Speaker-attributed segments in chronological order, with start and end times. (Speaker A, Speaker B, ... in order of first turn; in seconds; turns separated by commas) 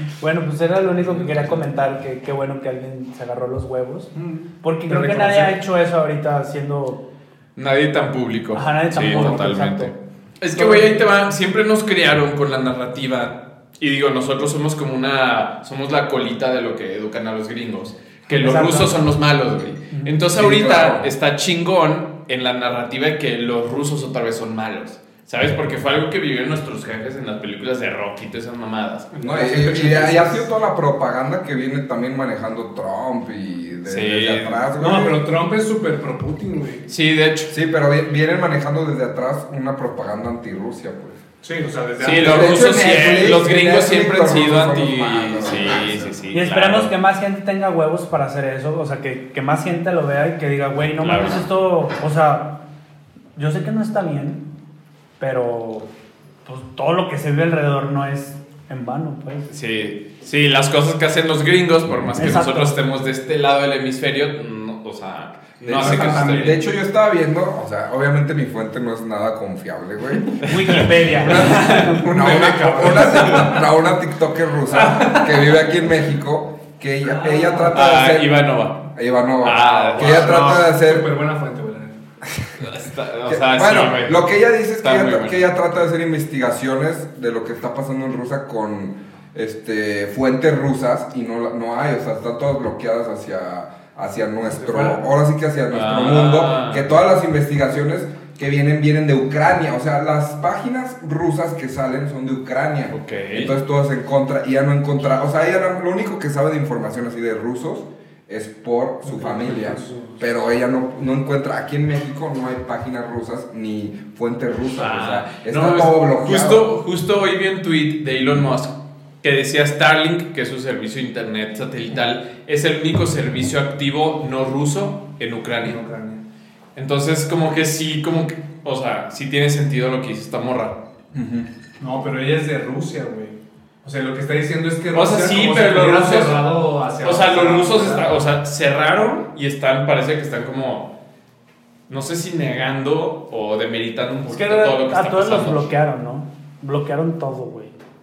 Speaker A: 0.2-7.0, Speaker B: 1.0-1.6, Speaker C: 4.1-5.6, Speaker B: 7.5-30.1, Speaker A: 8.5-9.9, Speaker A: 10.5-10.9, Speaker A: 18.3-18.9, Speaker A: 19.9-20.2, Speaker D: 20.3-21.1, Speaker C: 29.1-30.4, Speaker D: 29.2-35.2, Speaker B: 33.9-34.6, Speaker C: 34.8-36.9, Speaker B: 36.9-37.5, Speaker D: 37.5-41.2, Speaker C: 41.4-42.6, Speaker B: 42.0-46.9, Speaker D: 42.1-46.1, Speaker A: 46.3-52.6, Speaker B: 51.0-51.4, Speaker A: 53.4-54.4, Speaker A: 55.2-55.9, Speaker A: 56.5-59.5, Speaker B: 59.5-66.6, Speaker A: 62.1-62.8, Speaker D: 65.6-70.4, Speaker C: 65.8-66.2, Speaker A: 70.4-72.1, Speaker B: 70.4-71.9, Speaker D: 71.2-78.4, Speaker C: 71.3-73.6, Speaker C: 74.7-75.6, Speaker C: 77.1-77.8, Speaker B: 77.7-78.9, Speaker D: 78.9-81.1, Speaker B: 79.4-80.7, Speaker C: 79.6-82.0, Speaker D: 82.3-82.5, Speaker B: 82.6-85.5, Speaker D: 83.3-116.7, Speaker C: 94.5-95.0, Speaker B: 95.7-96.8, Speaker B: 102.9-103.5, Speaker C: 109.0-110.2, Speaker B: 114.7-125.8, Speaker C: 125.6-126.2, Speaker B: 126.8-130.8, Speaker C: 131.8-138.1, Speaker B: 134.9-140.9, Speaker B: 141.9-145.7, Speaker A: 144.2-147.7